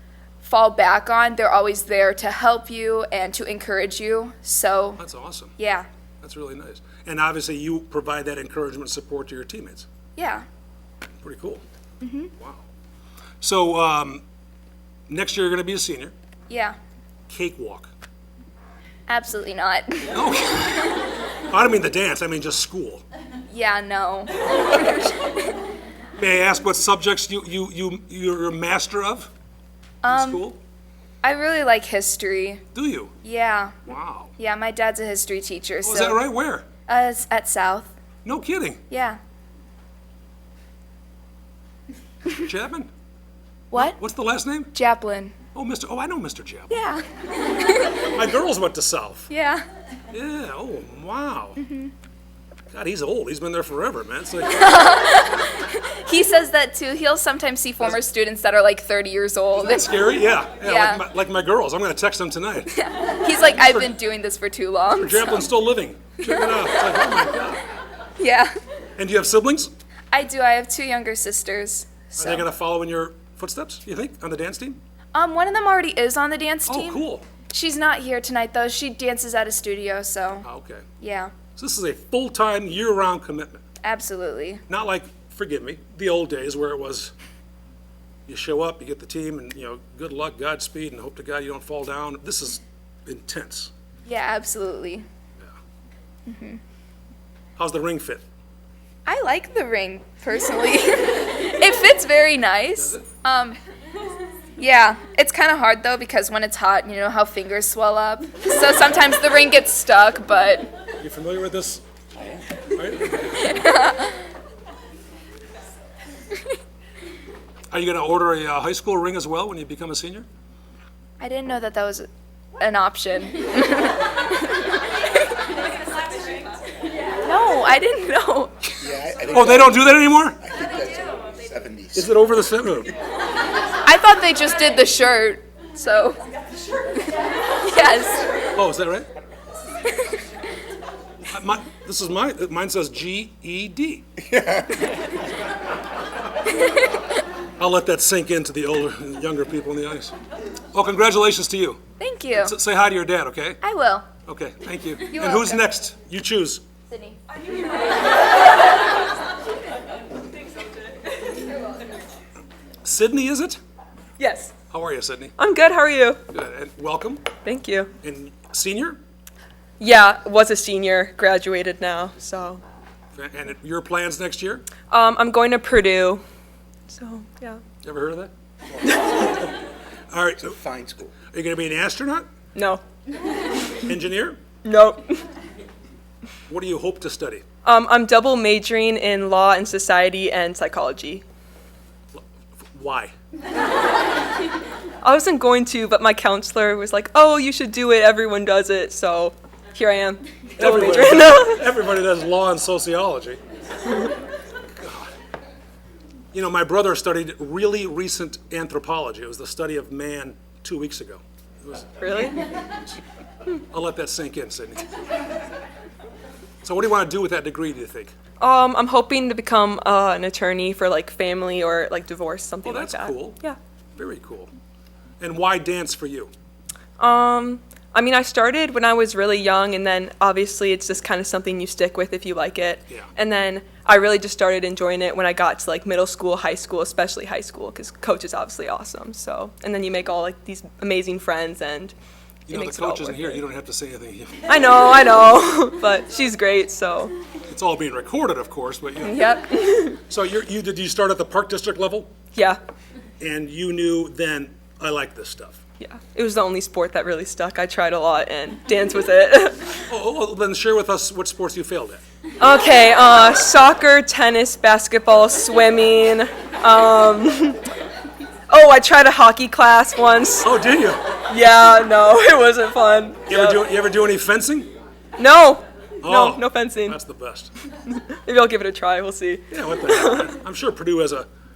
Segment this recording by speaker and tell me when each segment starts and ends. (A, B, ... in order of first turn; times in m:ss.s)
0:00.4-0:05.0 A
0:05.0-0:05.5 B
0:05.6-0:05.9 A
0:06.2-0:09.9 B
0:10.2-0:10.4 A
0:11.2-0:11.6 B
0:12.0-0:12.3 A
0:12.4-0:12.7 B
0:13.4-0:14.2 B
0:15.1-0:16.1 B
0:16.5-0:16.8 A
0:17.3-0:17.9 B
0:19.1-0:20.2 A
0:20.1-0:21.0 B
0:21.5-0:23.0 B
0:23.5-0:25.3 A
0:26.2-0:29.3 B
0:30.0-0:30.5 A
0:30.1-0:30.6 B
0:31.2-0:32.6 A
0:32.7-0:33.1 B
0:33.2-0:33.7 A
0:33.8-0:34.3 B
0:34.4-0:36.2 A
0:35.8-0:36.7 B
0:36.9-0:37.9 A
0:38.2-0:38.8 B
0:38.9-0:39.2 A
0:42.3-0:42.9 B
0:43.7-0:44.0 A
0:43.8-0:44.7 B
0:44.7-0:45.3 A
0:45.5-0:46.7 B
0:46.7-0:48.0 A
0:48.0-0:49.3 B
0:49.3-0:49.6 A
0:50.1-0:51.6 B
0:51.6-0:51.9 A
0:52.7-0:54.7 B
0:54.5-1:00.0 A
0:59.5-1:02.7 B
1:00.6-1:01.0 A
1:02.7-1:05.4 A
1:03.6-1:03.9 B
1:05.0-1:07.6 B
1:06.2-1:06.6 A
1:08.2-1:08.5 A
1:09.0-1:09.7 B
1:10.1-1:12.5 A
1:12.2-1:14.8 B
1:15.1-1:20.5 A
1:16.7-1:17.3 B
1:20.4-1:20.8 B
1:21.0-1:21.4 A
1:21.5-1:23.6 B
1:23.8-1:24.6 A
1:24.7-1:27.1 B
1:28.3-1:33.7 B
1:34.0-1:35.0 A
1:36.3-1:36.6 A
1:37.6-1:38.3 B
1:39.1-1:43.6 A
1:42.8-1:43.0 B
1:44.6-1:50.7 A
1:51.0-1:51.8 B
1:52.8-1:53.6 B
1:53.4-1:54.2 A
1:57.7-2:00.3 B
2:01.2-2:04.6 A
2:07.2-2:08.8 A
2:08.8-2:12.2 C
2:09.3-2:10.4 B
2:12.0-2:12.9 B
2:13.8-2:16.2 A
2:17.6-2:18.3 A
2:18.6-2:19.1 B
2:21.3-2:24.1 B
2:24.2-2:25.1 C
2:27.6-2:30.1 B
2:30.7-2:31.8 B
2:32.0-2:32.6 A
2:32.4-2:33.6 B
2:33.6-2:34.1 A
2:34.2-2:36.6 B
2:35.1-2:35.6 A
2:36.9-2:37.2 A
2:42.8-2:43.6 B
2:44.2-2:44.5 D
2:44.7-2:45.3 B
2:45.4-2:46.2 D
2:46.3-2:47.3 B
2:47.4-2:47.9 D
2:48.0-2:49.0 B
2:49.8-2:52.6 D
2:53.1-2:54.7 B
2:54.9-2:56.2 D
2:56.9-2:57.6 D
2:57.8-2:58.3 B
2:58.9-2:59.3 D
3:00.1-3:00.6 B
3:00.4-3:01.1 C
3:01.3-3:02.3 B
3:02.6-3:02.8 D
3:03.8-3:04.4 B
3:04.6-3:05.2 D
3:06.5-3:07.4 B
3:07.6-3:11.2 D
3:12.1-3:13.1 B
3:15.0-3:21.6 D
3:20.6-3:23.4 B
3:24.8-3:25.1 B
3:26.3-3:31.9 B
3:32.0-3:32.4 D
3:33.6-3:34.8 B
3:36.6-3:38.1 B
3:38.4-3:43.6 D
3:42.6-3:43.4 B
3:44.0-3:44.5 B
3:45.2-3:46.3 B
3:47.0-4:01.9 D
4:02.5-4:04.5 B
4:02.5-4:03.4 D
4:04.5-4:07.1 D
4:07.5-4:09.3 B
4:09.1-4:09.4 A
4:09.1-4:10.0 D
4:10.1-4:12.1 B
4:13.2-4:15.6 B
4:15.8-4:19.8 D
4:19.9-4:22.0 B
4:22.4-4:27.6 D
4:28.5-4:30.5 D
4:30.4-4:31.0 B
4:31.3-4:33.7 D
4:33.3-4:34.7 B
4:35.2-4:37.0 D
4:36.0-4:37.5 B
4:37.8-4:40.4 D
4:39.5-4:41.3 B